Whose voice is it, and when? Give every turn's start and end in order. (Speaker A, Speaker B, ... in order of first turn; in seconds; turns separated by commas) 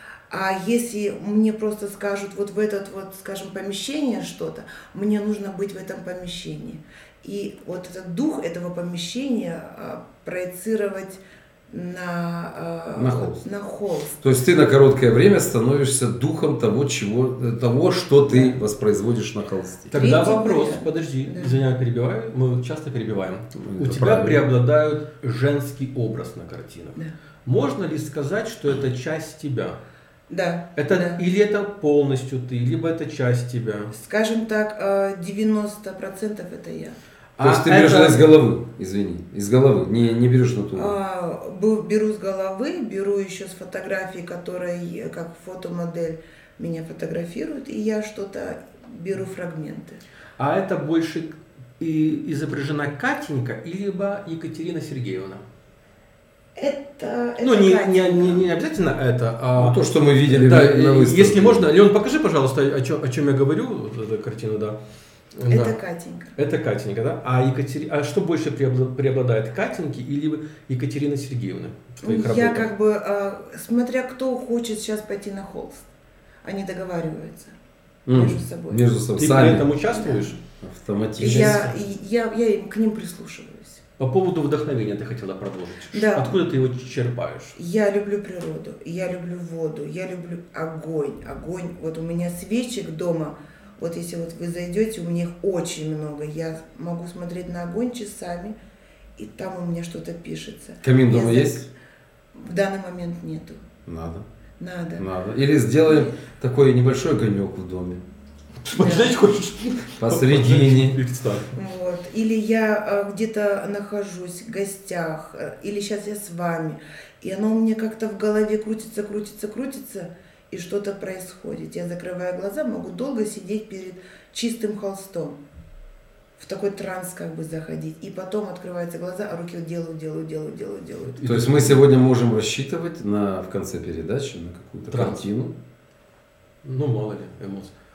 Speaker A: 0.3-14.2, Speaker B: 12.9-13.4, Speaker B: 14.2-20.0, Speaker A: 18.3-18.6, Speaker C: 19.9-29.8, Speaker A: 19.9-21.6, Speaker B: 23.6-24.5, Speaker A: 30.3-31.2, Speaker C: 30.8-33.9, Speaker A: 33.9-37.0, Speaker C: 37.4-38.3, Speaker B: 37.4-41.0, Speaker A: 40.7-50.0, Speaker C: 50.4-55.4, Speaker A: 56.5-58.5, Speaker C: 57.4-64.8, Speaker B: 59.5-61.7, Speaker C: 65.3-65.7, Speaker A: 65.5-66.3, Speaker C: 66.3-72.7, Speaker A: 72.0-75.9, Speaker A: 76.4-77.5, Speaker B: 78.0-79.7, Speaker A: 78.1-78.9, Speaker C: 79.1-80.4, Speaker A: 79.9-80.3, Speaker B: 80.5-81.7, Speaker C: 81.2-81.7, Speaker A: 81.2-83.8, Speaker C: 84.0-87.6, Speaker A: 85.9-86.4, Speaker A: 87.6-98.5, Speaker A: 99.2-101.7, Speaker B: 100.8-101.6, Speaker A: 102.3-103.6, Speaker B: 103.8-104.2, Speaker A: 104.6-105.0, Speaker B: 105.0-108.0, Speaker A: 105.8-106.1, Speaker C: 108.6-111.5, Speaker A: 108.8-109.1, Speaker B: 110.0-111.0, Speaker A: 111.5-125.4, Speaker A: 126.4-131.2, Speaker C: 131.2-131.8, Speaker B: 131.2-135.5, Speaker C: 134.9-135.2, Speaker C: 136.6-137.7